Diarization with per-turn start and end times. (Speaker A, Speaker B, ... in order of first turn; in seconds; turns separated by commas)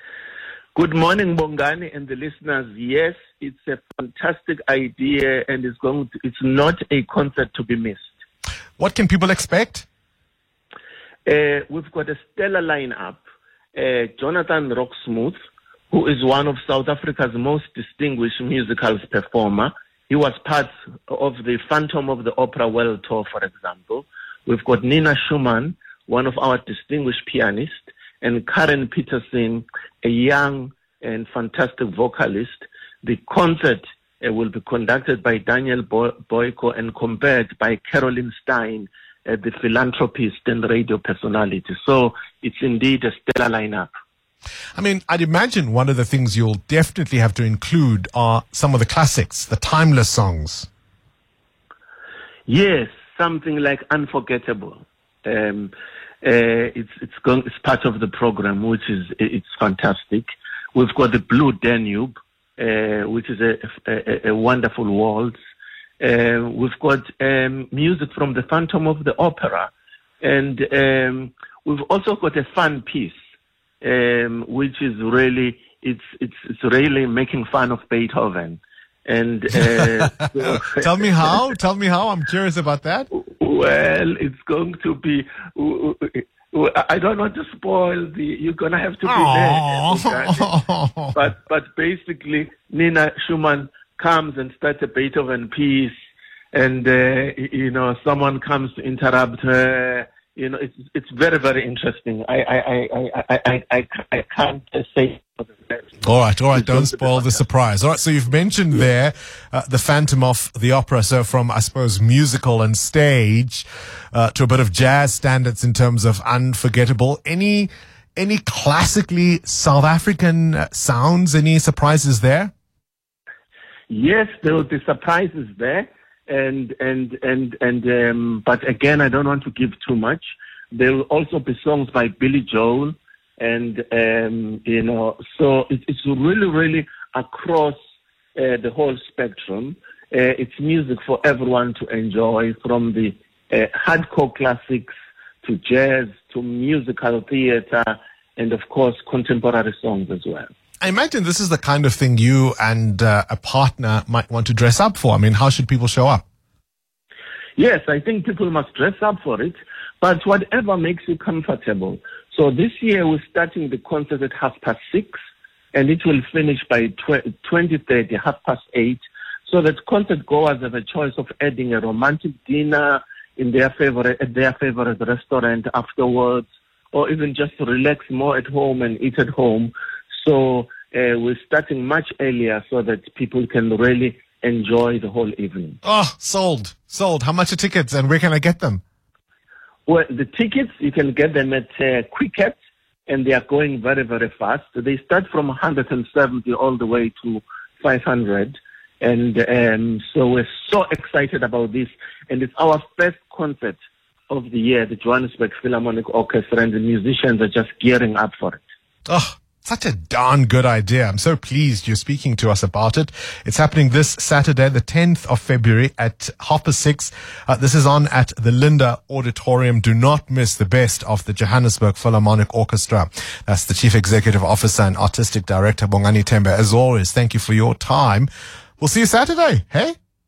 Speaker A: 0.7-8.1, Speaker B: 8.8-9.8, Speaker A: 11.2-13.2, Speaker A: 13.7-15.4, Speaker A: 15.9-43.9, Speaker B: 44.8-50.7, Speaker A: 52.5-65.3, Speaker A: 66.0-73.2, Speaker A: 73.8-81.4, Speaker B: 80.4-83.1, Speaker A: 83.1-90.5, Speaker B: 89.0-91.2, Speaker A: 91.1-95.9, Speaker A: 96.5-106.0, Speaker B: 106.0-122.5, Speaker A: 106.5-107.4, Speaker A: 123.9-137.8, Speaker A: 138.3-144.9, Speaker A: 145.4-150.5, Speaker B: 150.8-156.2, Speaker A: 157.6-165.2, Speaker A: 165.7-185.8, Speaker B: 185.8-188.8, Speaker A: 189.8-208.6, Speaker B: 209.1-229.9